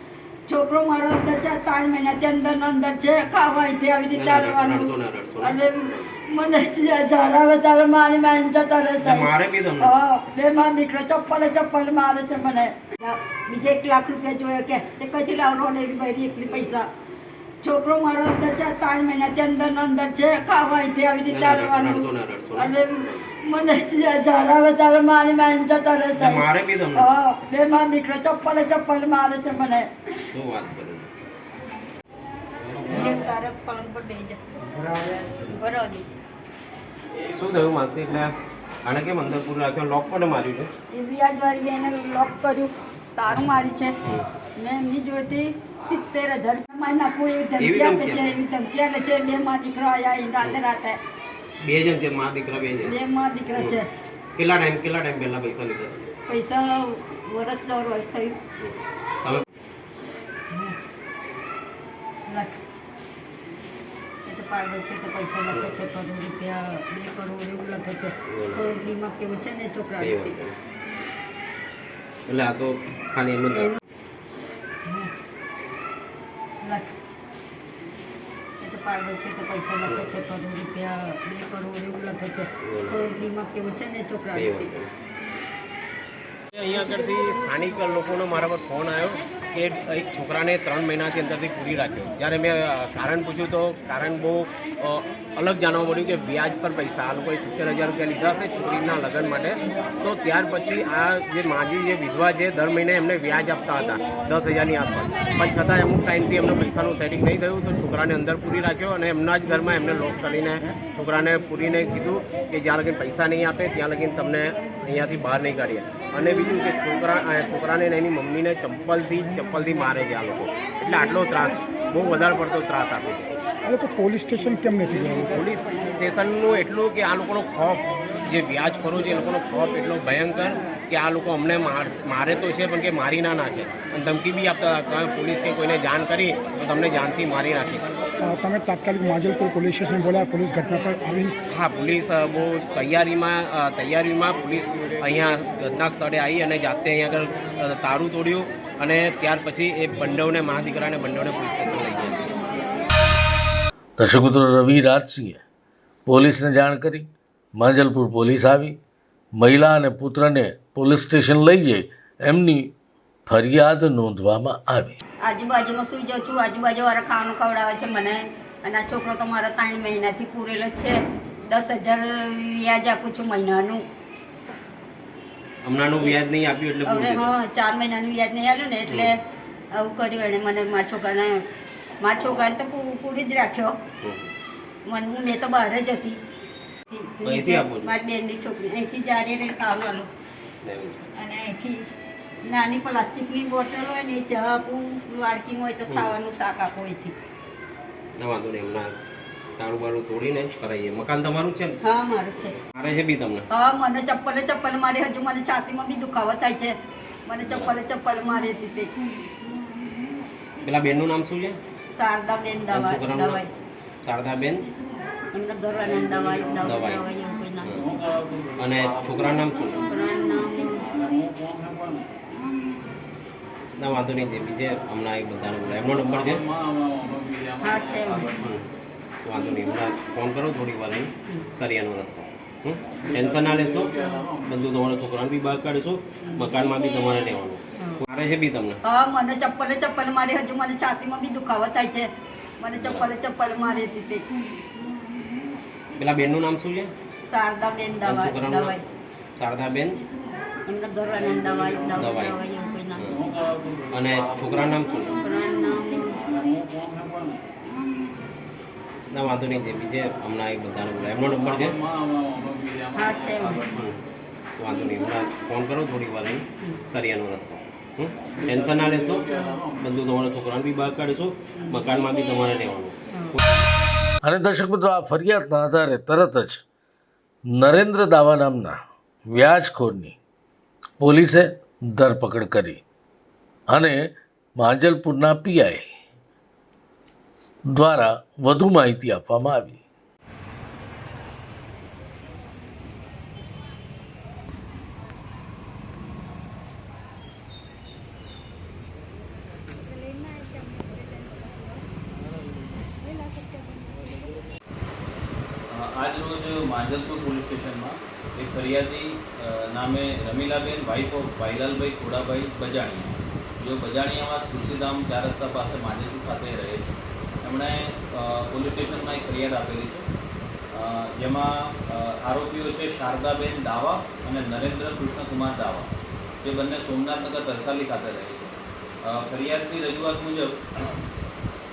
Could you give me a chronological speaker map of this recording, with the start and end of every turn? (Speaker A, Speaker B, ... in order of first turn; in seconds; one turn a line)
Speaker A: 0.5-9.3
Speaker B: 4.1-6.1
Speaker B: 9.0-9.9
Speaker A: 9.8-16.9
Speaker A: 17.6-29.9
Speaker B: 21.3-23.3
Speaker B: 26.1-27.1
Speaker B: 30.3-31.1
Speaker A: 32.9-34.4
Speaker A: 35.4-36.0
Speaker B: 37.3-38.3
Speaker B: 38.8-40.7
Speaker A: 40.9-43.9
Speaker A: 44.6-51.0
Speaker B: 47.6-48.3
Speaker B: 51.6-52.9
Speaker A: 52.8-53.9
Speaker B: 54.4-56.1
Speaker A: 56.3-58.4
Speaker B: 58.6-59.4
Speaker A: 62.3-62.5
Speaker A: 64.2-70.3
Speaker B: 68.3-68.7
Speaker B: 70.0-70.5
Speaker B: 72.3-73.8
Speaker A: 73.5-73.8
Speaker A: 76.6-76.9
Speaker A: 78.6-84.7
Speaker B: 82.6-83.1
Speaker B: 84.3-84.9
Speaker B: 86.5-123.3
Speaker C: 123.6-125.3
Speaker B: 125.2-137.9
Speaker C: 138.2-141.4
Speaker B: 141.5-152.3
Speaker D: 154.0-155.4
Speaker D: 156.1-157.1
Speaker D: 157.6-158.8
Speaker D: 159.4-162.7
Speaker D: 163.3-164.9
Speaker A: 165.2-173.8
Speaker B: 175.6-177.3
Speaker A: 176.8-179.2
Speaker B: 178.9-179.1
Speaker A: 179.7-181.4
Speaker A: 182.0-183.8
Speaker B: 184.0-184.3
Speaker A: 184.8-186.2
Speaker A: 186.9-190.1
Speaker B: 187.2-187.9
Speaker B: 190.6-191.0
Speaker A: 191.1-191.9
Speaker A: 192.4-197.1
Speaker B: 198.2-198.9
Speaker B: 199.6-201.8
Speaker A: 201.8-202.5
Speaker B: 202.7-203.4
Speaker A: 203.5-206.7
Speaker A: 207.2-208.9
Speaker B: 207.4-207.8
Speaker B: 210.6-211.6
Speaker A: 211.9-213.5
Speaker B: 212.7-213.4
Speaker B: 214.0-214.7
Speaker A: 215.3-217.9
Speaker B: 216.6-217.0
Speaker B: 217.6-217.9
Speaker B: 218.6-219.9
Speaker A: 219.8-221.0
Speaker B: 223.8-226.4
Speaker A: 227.6-228.3
Speaker B: 228.3-228.7
Speaker B: 229.2-238.8
Speaker A: 237.8-238.0
Speaker A: 238.8-242.1
Speaker A: 242.6-244.2
Speaker B: 242.8-243.1
Speaker B: 245.9-246.9
Speaker A: 247.2-248.8
Speaker B: 248.0-248.8
Speaker B: 249.3-250.0
Speaker A: 250.7-253.2
Speaker B: 251.9-252.3
Speaker B: 253.0-253.3
Speaker B: 253.9-255.2
Speaker A: 255.1-256.2
Speaker B: 259.1-261.8
Speaker A: 262.9-263.6
Speaker B: 263.7-264.0
Speaker B: 264.6-273.4
Speaker A: 273.1-273.4
Speaker D: 274.2-276.6
Speaker D: 277.5-278.8
Speaker D: 279.3-280.1
Speaker D: 281.0-282.8
Speaker D: 283.7-284.0
Speaker D: 284.6-285.9
Speaker D: 287.7-289.8
Speaker E: 305.7-320.1
Speaker E: 320.7-325.9
Speaker E: 326.4-328.5
Speaker E: 329.0-331.0